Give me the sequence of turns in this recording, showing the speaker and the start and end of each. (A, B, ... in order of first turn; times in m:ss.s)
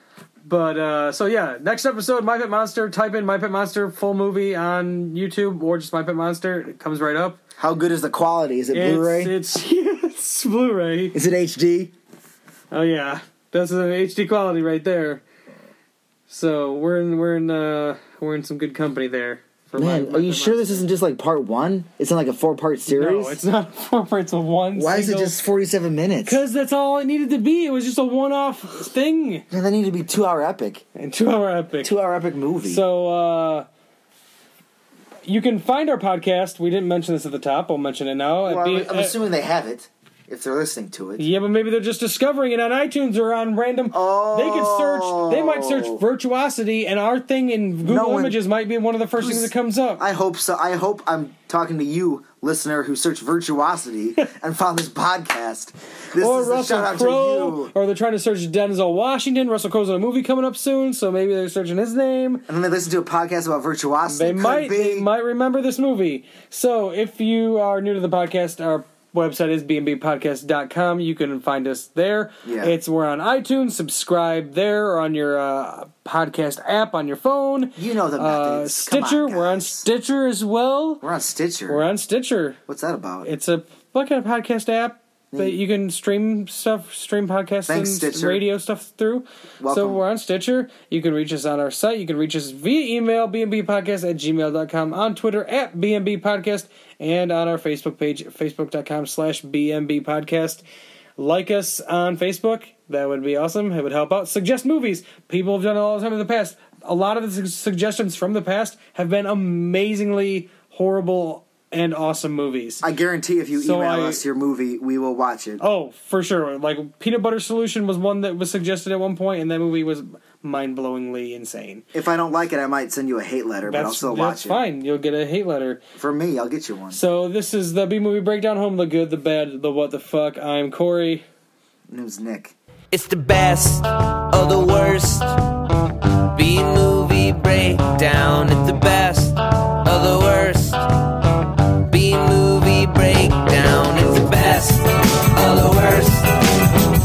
0:00.4-0:07.4 A
0:07.6-0:09.3 B
0:08.7-0:11.2 A
0:11.1-0:11.9 B
0:12.7-0:15.2 A
0:16.3-0:20.8 A
0:19.8-0:23.4 B
0:22.9-0:25.4 A
0:24.8-0:26.4 B
0:26.2-0:29.5 A
0:29.5-0:30.8 B
0:31.0-0:31.9 A
0:31.8-0:32.8 B
0:32.6-0:33.7 A
0:35.3-0:39.2 A
0:38.4-0:41.2 B
0:41.2-0:50.0 A
0:43.9-0:46.0 B
0:47.8-0:48.4 B
0:49.2-0:57.7 B
0:56.2-1:02.5 A
1:02.5-1:05.1 B
1:04.1-1:21.0 A
1:12.4-1:12.8 B
1:17.8-1:19.9 B
1:21.0-1:21.8 B
1:21.7-1:22.6 A
1:22.7-1:23.3 B
1:23.2-1:40.6 A
1:25.3-1:25.6 B
1:27.7-1:28.4 B
1:29.6-1:30.0 B
1:41.2-1:52.8 A
1:52.8-1:55.6 B
1:53.6-1:54.2 A
1:55.6-2:01.8 A
2:01.9-2:04.6 B
2:03.7-2:05.8 A
2:06.0-2:07.0 B
2:06.9-2:11.2 A
2:11.9-2:12.6 B
2:12.9-2:15.4 C
2:16.4-2:20.9 C
2:21.9-2:26.4 C